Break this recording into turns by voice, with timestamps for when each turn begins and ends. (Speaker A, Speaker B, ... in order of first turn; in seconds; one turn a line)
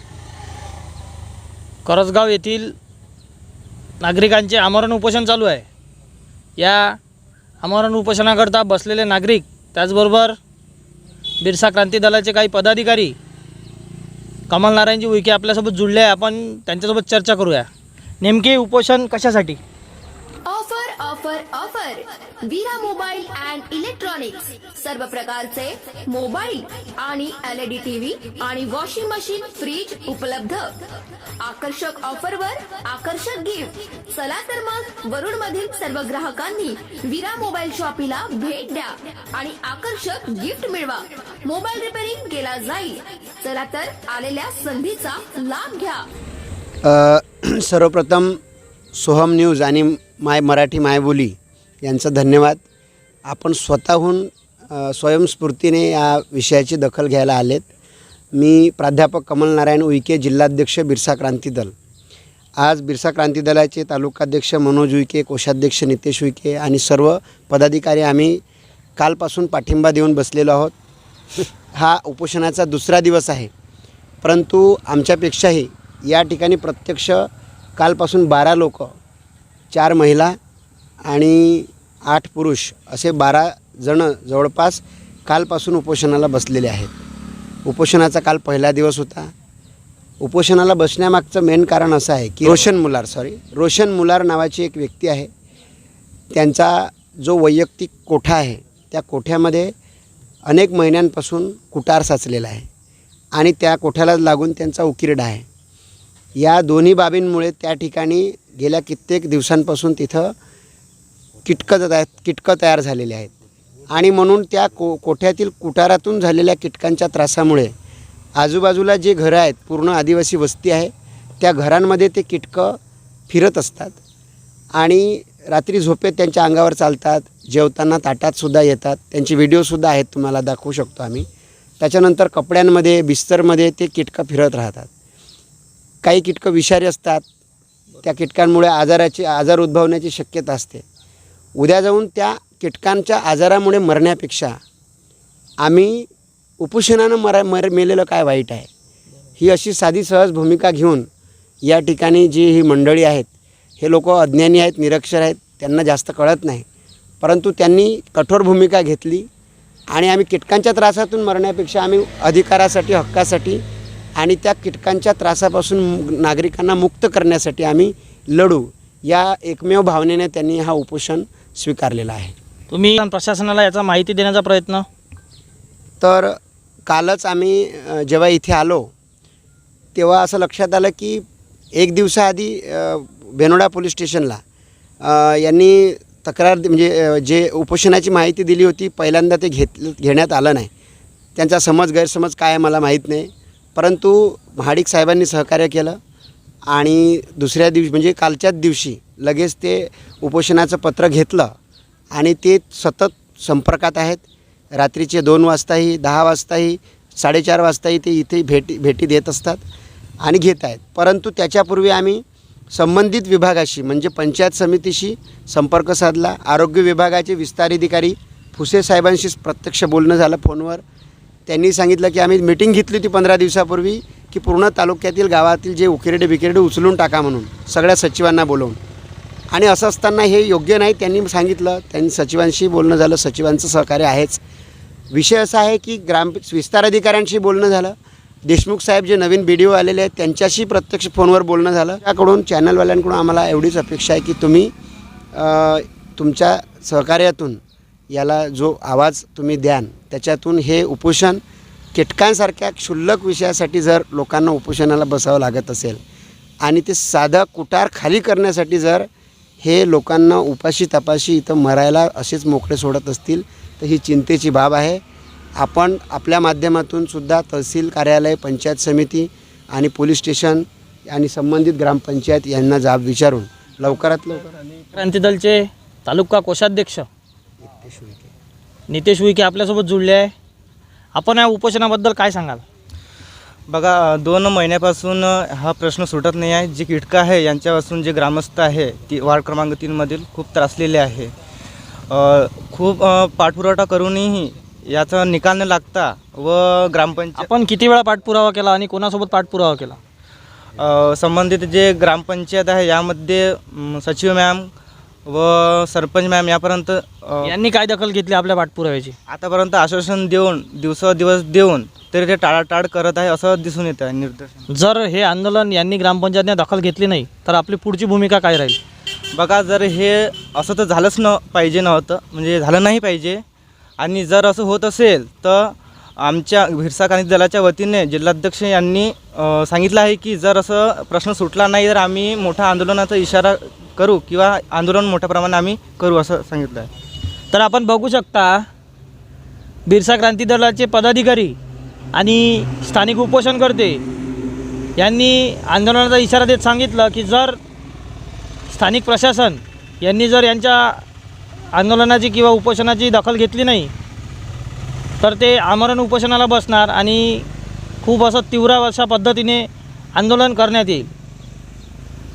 Speaker A: 1.8-2.7
Speaker A: 4.0-5.7
Speaker A: 6.6-7.0
Speaker A: 7.6-10.3
Speaker A: 11.4-13.2
Speaker A: 14.5-17.7
Speaker A: 18.2-19.6
Speaker B: 20.4-30.8
Speaker B: 31.4-46.0
Speaker C: 46.8-48.4
Speaker C: 48.9-52.6
Speaker C: 53.2-57.7
Speaker C: 58.3-61.7
Speaker C: 62.6-68.4
Speaker C: 69.0-70.7
Speaker C: 71.7-73.5
Speaker C: 74.2-78.9
Speaker C: 79.7-80.3
Speaker C: 81.0-86.9
Speaker C: 87.6-89.3
Speaker C: 90.2-95.3
Speaker C: 96.3-99.7
Speaker C: 100.5-102.7
Speaker C: 103.3-105.5
Speaker C: 106.4-110.3
Speaker C: 111.4-113.3
Speaker C: 113.9-117.7
Speaker C: 118.3-122.8
Speaker C: 123.3-124.0
Speaker C: 124.7-131.2
Speaker C: 131.8-134.9
Speaker C: 136.0-137.2
Speaker C: 138.0-140.8
Speaker C: 141.6-144.6
Speaker C: 145.6-146.1
Speaker C: 146.6-148.7
Speaker C: 149.4-151.1
Speaker C: 151.6-153.3
Speaker C: 153.8-156.6
Speaker C: 157.2-159.3
Speaker C: 159.9-163.6
Speaker C: 164.2-172.3
Speaker A: 172.7-174.8
Speaker C: 176.0-176.3
Speaker C: 176.9-178.9
Speaker C: 179.9-184.4
Speaker C: 185.0-190.7
Speaker C: 191.3-196.0
Speaker C: 196.7-201.5
Speaker C: 202.1-204.2
Speaker C: 204.7-209.6
Speaker C: 210.2-220.8
Speaker C: 221.5-228.8
Speaker C: 229.5-234.4
Speaker C: 235.1-244.7
Speaker C: 245.3-251.4
Speaker C: 251.9-256.0
Speaker C: 256.6-259.1
Speaker C: 259.6-265.0
Speaker C: 265.6-274.5
Speaker A: 274.9-277.1
Speaker C: 277.7-278.3
Speaker A: 278.9-280.3
Speaker A: 281.1-282.6
Speaker D: 283.7-291.3
Speaker D: 292.1-297.5
Speaker A: 297.4-300.0
Speaker D: 300.8-304.7
Speaker D: 305.2-307.5
Speaker A: 307.4-309.1
Speaker D: 309.3-314.6
Speaker A: 314.7-318.8
Speaker D: 319.3-323.4
Speaker D: 324.0-336.9
Speaker A: 337.5-338.6
Speaker A: 339.9-341.6
Speaker A: 342.1-344.0
Speaker A: 345.0-347.6
Speaker A: 348.7-351.0
Speaker A: 351.7-353.9
Speaker A: 355.2-357.4
Speaker A: 358.0-361.1